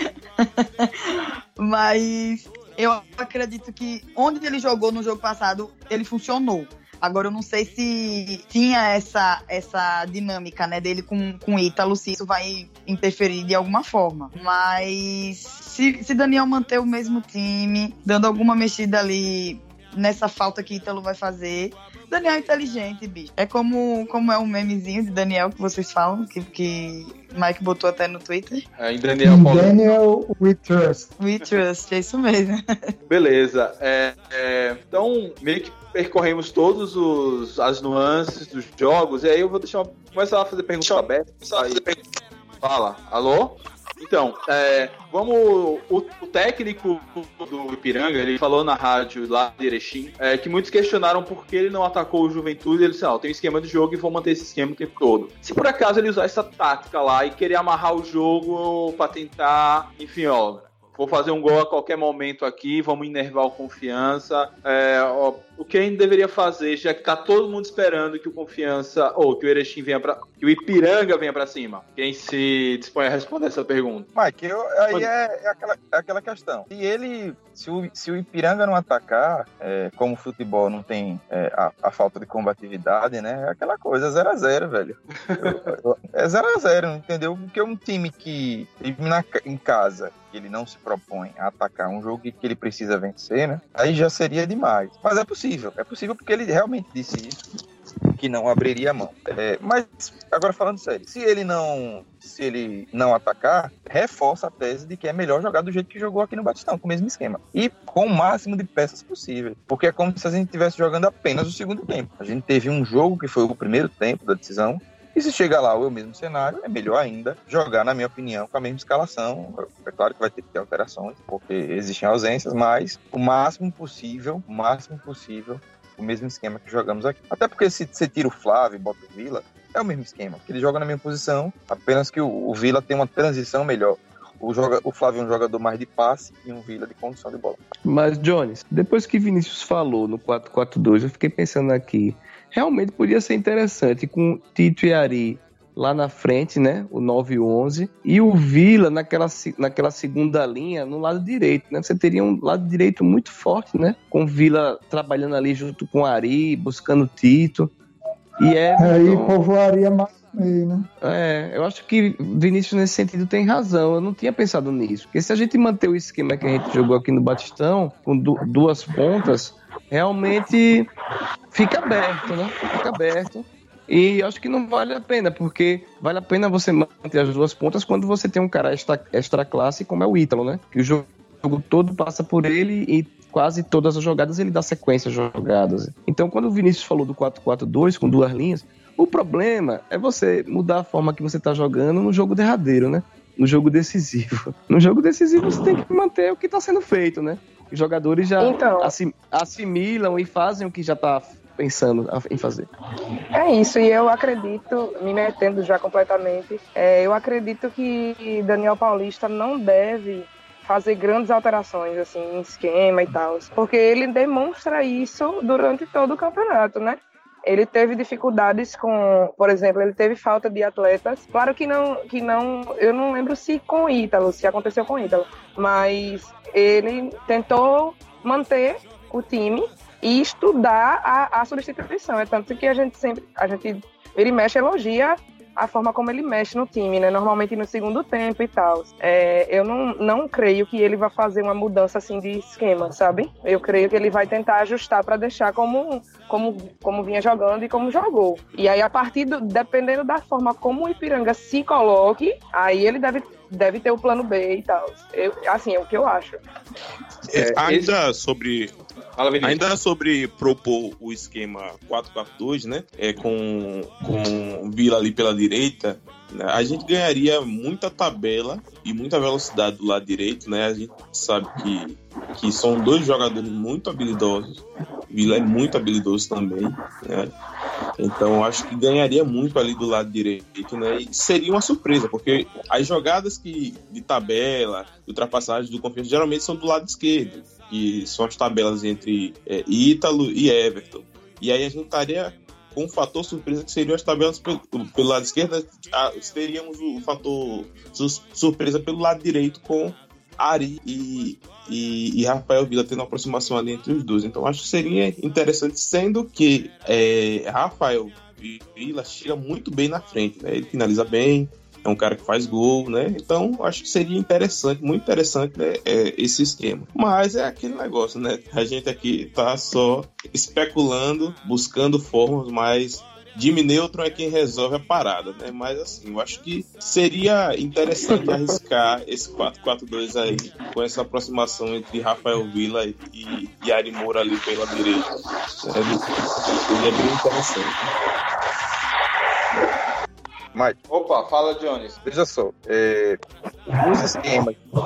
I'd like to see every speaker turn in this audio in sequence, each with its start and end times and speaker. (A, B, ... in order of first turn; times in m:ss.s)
0:00.4-0:28.6 A
0:28.8-0:29.8 B
0:29.2-0:31.1 C
0:31.2-0:32.9 A
0:33.1-0:42.0 B
0:42.6-1:14.1 B
1:14.2-1:37.4 D
1:25.2-1:25.7 B
1:38.2-2:17.6 D
2:17.8-2:37.7 E
2:38.4-2:39.4 E
2:38.8-2:40.9 C
2:41.0-2:50.9 E
2:51.5-3:22.7 E
3:18.4-3:18.9 F
3:23.4-4:16.4 F
4:17.3-4:18.7 G
4:17.4-4:17.9 B
4:19.2-4:19.6 B
4:19.4-4:37.3 G
4:38.0-5:35.1 G
5:35.6-5:36.1 G
5:36.6-5:37.7 G
5:40.9-5:42.0 B
5:42.0-5:43.2 D
5:43.8-5:44.6 D